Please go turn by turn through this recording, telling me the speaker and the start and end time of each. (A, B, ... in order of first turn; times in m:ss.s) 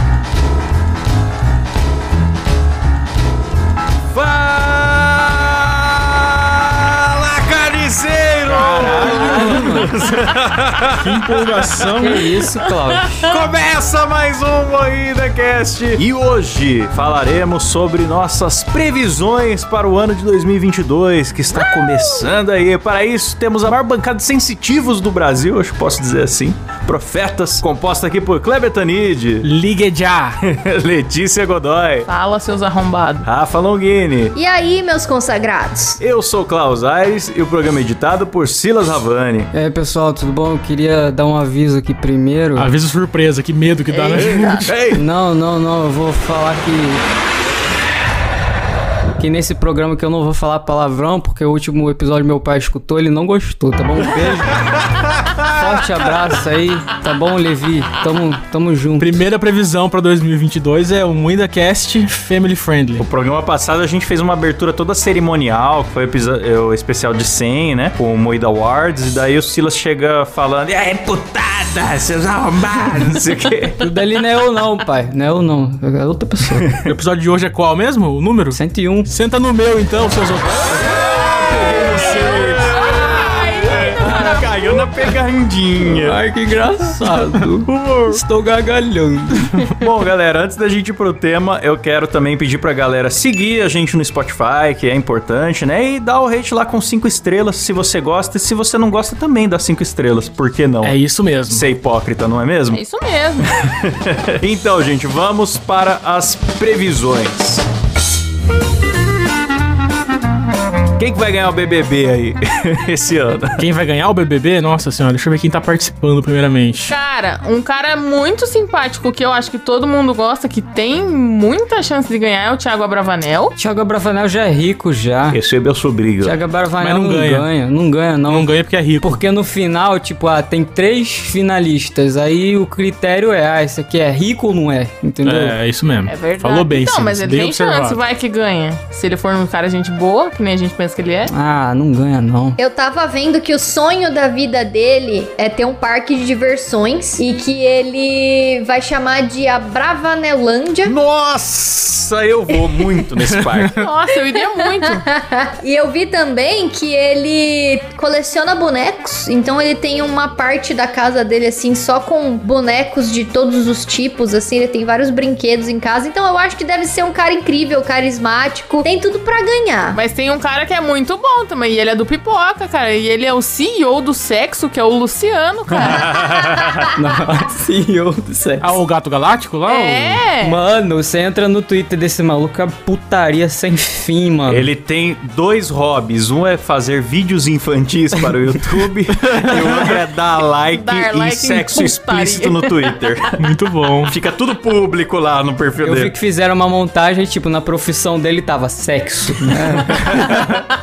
0:04.1-0:12.0 A
0:08.4-0:10.0 B
0:08.9-0:09.9 C
0:11.0-0:12.3 B
0:12.0-0:13.3 C
0:12.6-0:13.4 D
0:13.2-0:29.5 A
0:21.5-0:22.3 D
0:29.4-0:30.4 B
0:30.4-0:32.1 A
0:32.1-0:33.3 D
0:33.2-0:34.3 A
0:34.3-0:36.0 E
0:36.0-0:39.5 A
0:39.5-0:42.7 C
0:42.6-0:44.7 B
0:43.9-0:44.7 D
0:44.2-0:45.0 A
0:45.0-0:47.0 C
0:49.2-0:54.6 C
0:55.2-0:55.6 A
0:55.4-0:59.2 C
0:59.0-1:03.0 B
1:03.0-1:13.8 A
1:13.8-1:16.7 C
1:16.6-1:16.9 A
1:16.8-1:20.8 B
1:18.5-1:19.1 C
1:20.8-1:26.2 A
1:22.1-1:24.8 D
1:25.8-1:29.6 C
1:27.3-1:28.2 B
1:29.4-1:29.7 B
1:29.8-1:41.0 A
1:40.8-1:41.7 B
1:41.5-1:42.8 A
1:42.7-1:43.6 D
1:43.4-1:47.6 A
1:51.0-1:53.6 A
1:53.6-1:57.0 B
1:56.9-2:03.6 D
2:03.6-2:05.4 C
2:05.3-2:06.4 A
2:06.2-2:08.5 C
2:06.8-2:07.5 B
2:08.3-2:09.2 B
2:09.0-2:15.6 C
2:15.2-2:18.0 B
2:16.1-2:21.3 D
2:21.3-2:22.6 C
2:22.6-2:30.9 E
2:30.8-2:33.8 A
2:33.1-2:33.9 B
2:33.7-2:35.0 D
2:34.5-2:50.0 E
2:49.9-2:56.1 D
2:55.8-2:56.9 A
2:56.9-2:58.8 C
2:58.6-3:00.2 B
2:59.7-3:00.6 D
3:00.4-3:04.7 C
3:04.5-3:13.4 A
3:09.2-3:10.0 B
3:10.7-3:13.0 D
3:13.4-3:14.2 B
3:14.1-3:16.1 A
3:15.8-3:20.2 C
3:19.4-3:20.6 A